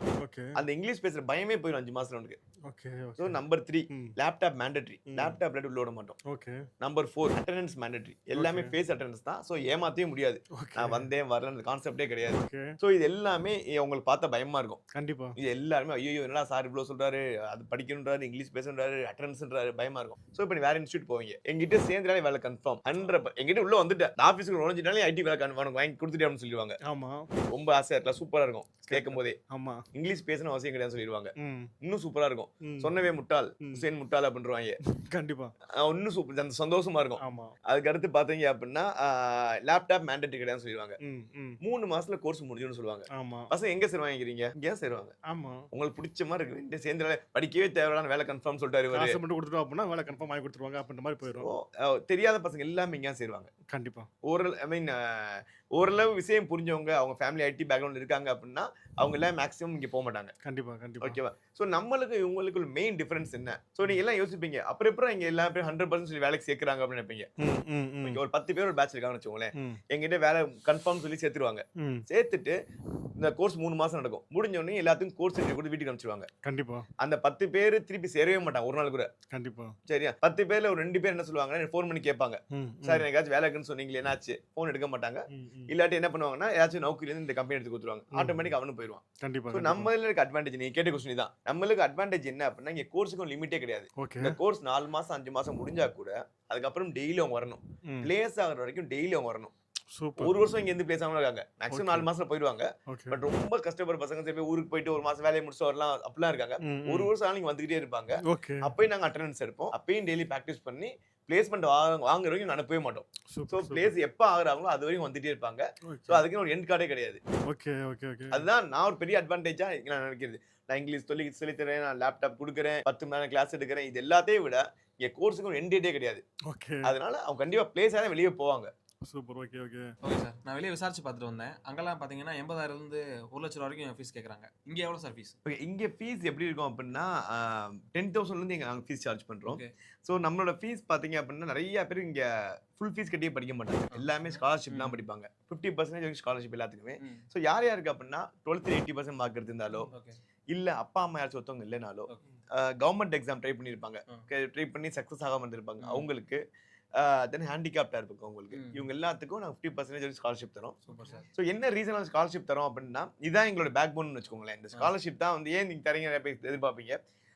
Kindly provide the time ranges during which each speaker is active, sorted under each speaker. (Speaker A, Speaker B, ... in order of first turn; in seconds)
Speaker A: 0.2-0.6, 2.6-3.4, 5.1-5.4, 6.2-6.7, 8.3-8.7, 10.6-11.1, 12.3-12.8, 14.9-15.3, 26.9-27.3, 28.9-29.8, 31.4-31.7, 32.6-32.9, 34.8-35.5, 37.2-37.5, 41.0-41.6, 43.1-43.5, 45.3-45.6, 48.9-51.5, 53.7-54.1, 60.4-61.2, 67.4-68.2, 71.8-72.0, 76.4-76.8, 79.3-79.7, 82.5-83.0, 85.3-85.7, 88.1-88.5, 89.2-89.9, 94.0-94.4, 99.9-100.3, 101.7-102.1, 102.9-103.2, 106.6-107.1, 108.2-108.7, 113.3-113.9, 115.9-116.2, 117.5-118.5, 126.5-126.9, 129.1-129.9, 160.9-161.2
Speaker B: 0.6-2.4, 3.2-6.2, 6.8-14.8, 15.4-26.8, 27.5-29.4, 29.9-34.8, 35.7-41.0, 41.6-45.1, 45.7-49.2, 51.4-53.5, 54.2-60.3, 61.0-67.3, 68.0-72.5, 73.2-76.3, 77.0-79.1, 79.9-99.5, 100.2-117.2, 118.3-126.2, 126.8-128.7, 135.4-149.9, 150.5-156.4, 156.9-160.8, 161.3-167.0
Speaker C: 130.0-135.3, 143.9-145.0, 149.9-150.2, 155.8-156.1, 158.5-158.8, 160.9-161.2